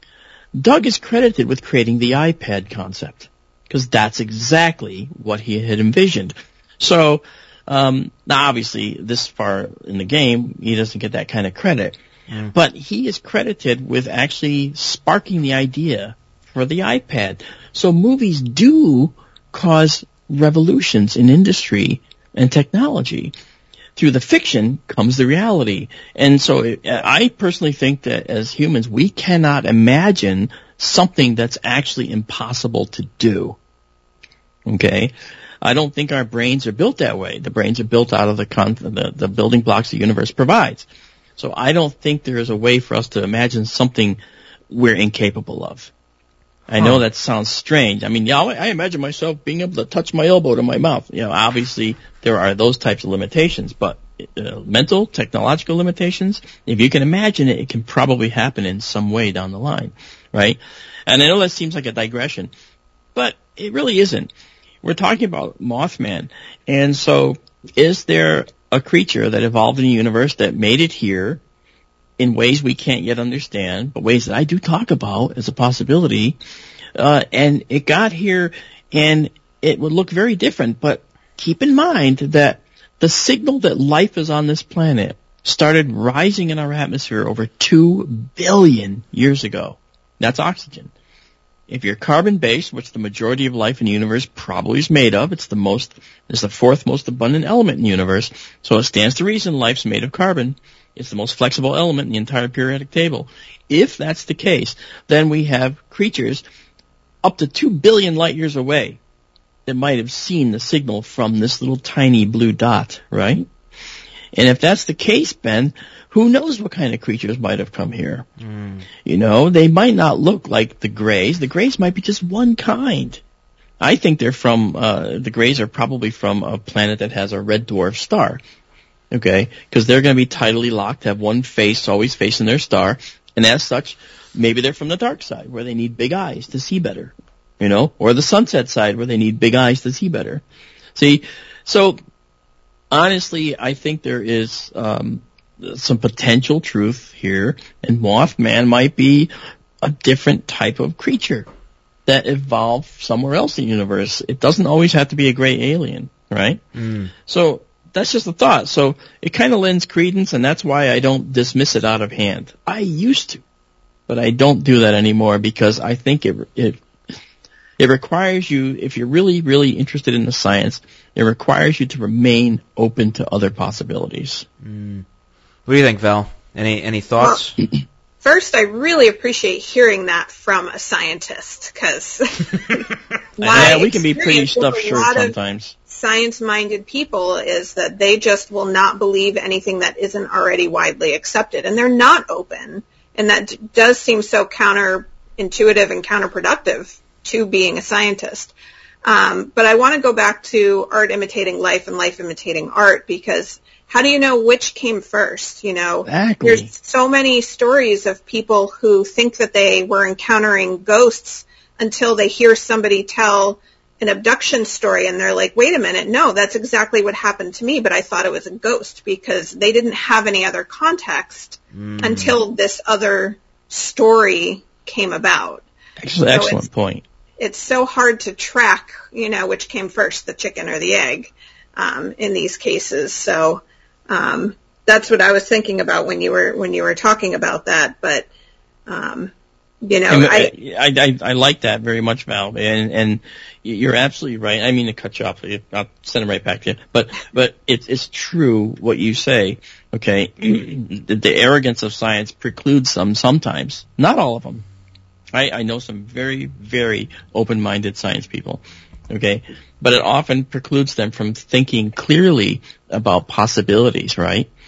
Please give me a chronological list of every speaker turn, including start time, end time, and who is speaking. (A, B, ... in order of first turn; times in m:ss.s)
0:00.5-0:12.0 A
0:12.5-0:23.3 A
0:24.0-0:33.6 A
0:34.7-0:40.8 A
0:41.4-0:44.2 A
0:44.7-0:45.9 A
0:46.7-1:02.5 A
1:03.1-1:04.3 A
1:04.8-1:11.4 A
1:12.2-1:16.4 A
1:17.0-1:30.9 A
1:31.7-1:46.4 A
1:47.2-1:49.0 A
1:49.6-1:53.5 A
1:54.3-1:58.2 A
1:58.4-1:58.8 B
1:59.0-2:03.2 A
2:03.8-2:08.4 A
2:09.1-2:20.4 A
2:20.9-2:22.0 A
2:22.9-2:29.3 A
2:29.8-2:31.5 A
2:32.0-2:36.6 A
2:36.7-2:37.1 B
2:37.2-2:43.4 A
2:44.1-2:46.8 A
2:47.8-2:54.4 A
2:54.6-2:55.0 B
2:55.7-2:57.6 B
2:58.2-3:02.9 C
3:03.4-3:05.4 C
3:03.4-3:05.7 A
3:03.4-3:03.8 B
3:05.9-3:18.5 C
3:19.0-3:45.6 C
3:26.0-3:26.7 A
3:41.7-3:42.4 B
3:46.0-3:47.0 A
3:46.3-3:46.6 C
3:47.4-3:58.3 C
3:58.9-3:59.3 C
3:59.8-4:00.5 C
4:00.1-4:14.6 A
4:15.3-4:24.5 A